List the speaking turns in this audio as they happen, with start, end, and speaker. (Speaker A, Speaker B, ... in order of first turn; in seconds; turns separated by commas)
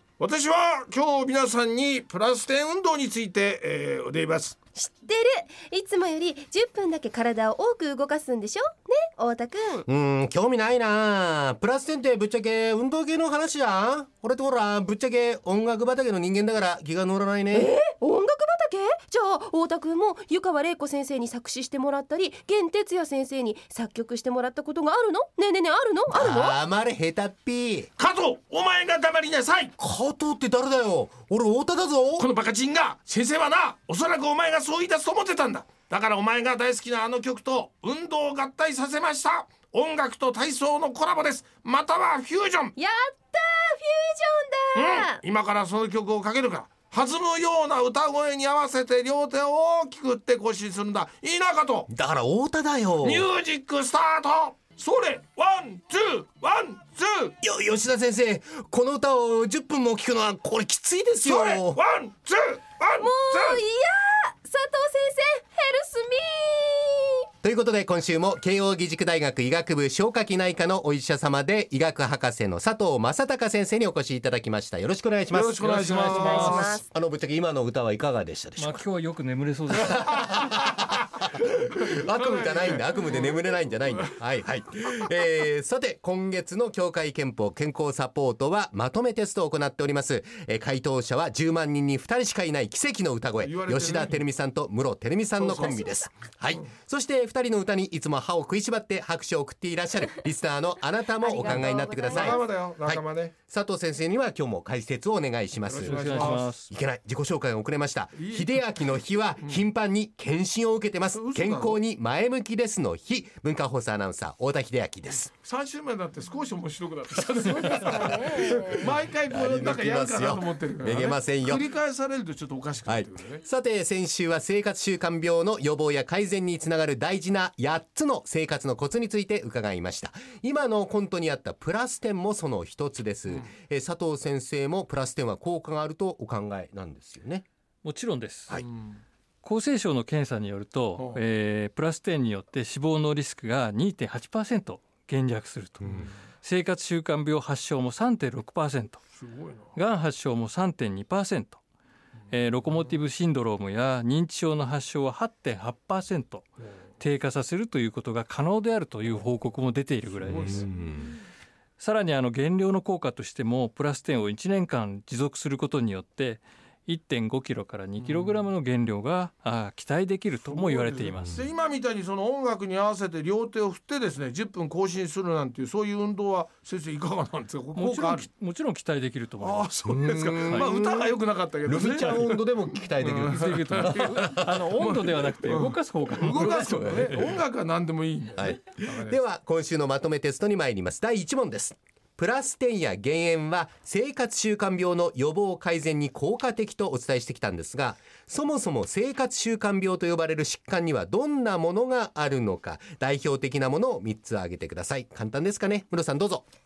Speaker A: 0.2-4.5, Speaker B: 4.7-9.8, Speaker C: 9.9-17.7, Speaker B: 17.5-26.6, Speaker C: 26.1-27.9, Speaker A: 28.0-29.7, Speaker C: 29.8-32.3, Speaker A: 32.2-42.7, Speaker B: 42.8-45.2, Speaker A: 44.7-51.9, Speaker C: 51.9-53.2, Speaker A: 53.0-57.3, Speaker C: 57.4-61.8, Speaker A: 61.2-63.6, Speaker B: 63.0-67.2, Speaker C: 67.4-78.8, Speaker A: 75.3-76.8, Speaker D: 75.9-76.4, Speaker B: 76.0-76.8, Speaker D: 78.6-80.4, Speaker C: 79.7-115.3, Speaker A: 81.8-83.4, Speaker A: 93.4-94.2, Speaker A: 95.4-95.8, Speaker B: 95.7-96.1, Speaker B: 101.2-102.5, Speaker A: 101.4-103.3, Speaker A: 105.6-106.5, Speaker D: 105.8-106.7, Speaker A: 108.1-108.7, Speaker A: 111.1-111.8, Speaker A: 115.4-123.4, Speaker B: 117.4-118.9, Speaker C: 119.3-121.7, Speaker C: 122.9-137.4, Speaker D: 137.8-138.6, Speaker A: 138.7-139.0, Speaker D: 139.4-149.0, Speaker A: 140.9-141.2, Speaker A: 149.2-149.7, Speaker D: 149.7-151.6, Speaker D: 152.3-160.7, Speaker A: 160.2-161.0, Speaker C: 160.3-160.9, Speaker D: 161.8-171.4, Speaker A: 168.0-168.4, Speaker A: 170.4-178.3, Speaker D: 177.7-179.7, Speaker A: 179.4-189.2, Speaker C: 179.8-184.6, Speaker D: 180.4-180.7, Speaker D: 183.2-187.4, Speaker C: 186.3-187.1, Speaker C: 188.4-206.4